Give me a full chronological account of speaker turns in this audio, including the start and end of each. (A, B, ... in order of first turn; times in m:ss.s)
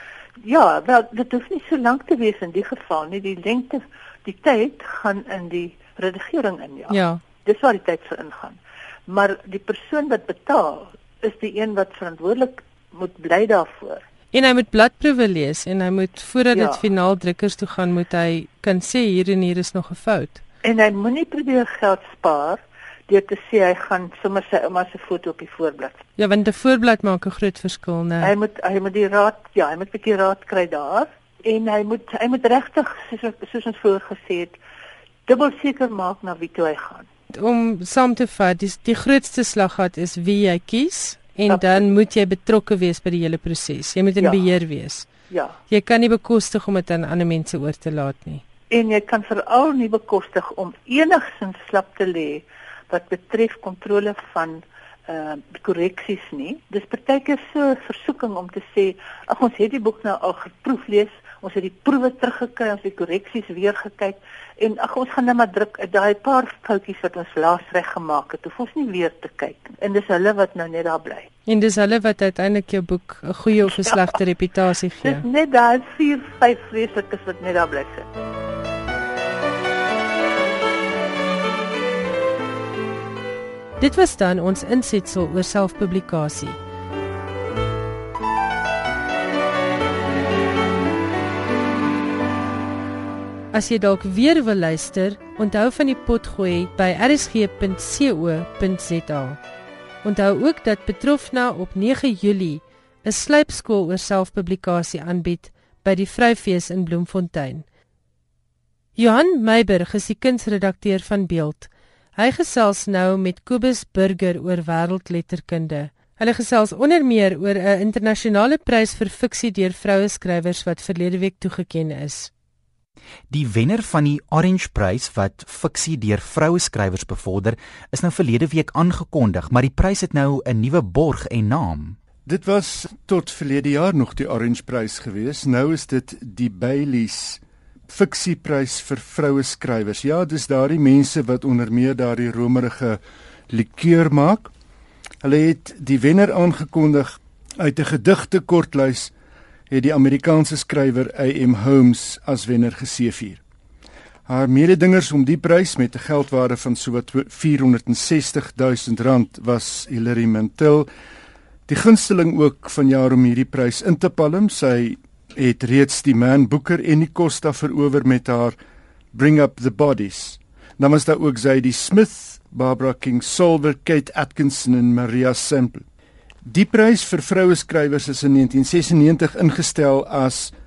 0:00.4-0:14.0 A
0:06.9-0:07.2 B
0:14.3-0:20.4 B
0:16.5-0:16.9 A
0:20.6-0:26.0 A
0:26.2-0:28.3 B
0:28.2-0:34.6 A
0:35.3-0:37.1 A
0:37.3-0:45.1 B
0:41.5-0:41.8 A
0:44.2-0:44.6 A
0:45.3-0:45.6 A
0:45.7-0:48.4 B
0:48.7-1:11.3 A
1:11.5-1:15.2 B
1:13.7-1:14.1 A
1:15.0-1:18.1 A
1:23.8-1:26.6 B
1:33.5-1:39.4 B
1:40.0-1:47.6 B
1:49.0-2:02.3 B
2:03.3-2:12.0 C
2:12.3-2:24.5 D
2:25.2-2:29.1 D
2:29.7-2:33.4 D
2:34.3-2:40.9 D
2:41.7-2:48.6 D
2:49.1-2:55.8 D
2:56.4-3:00.5 D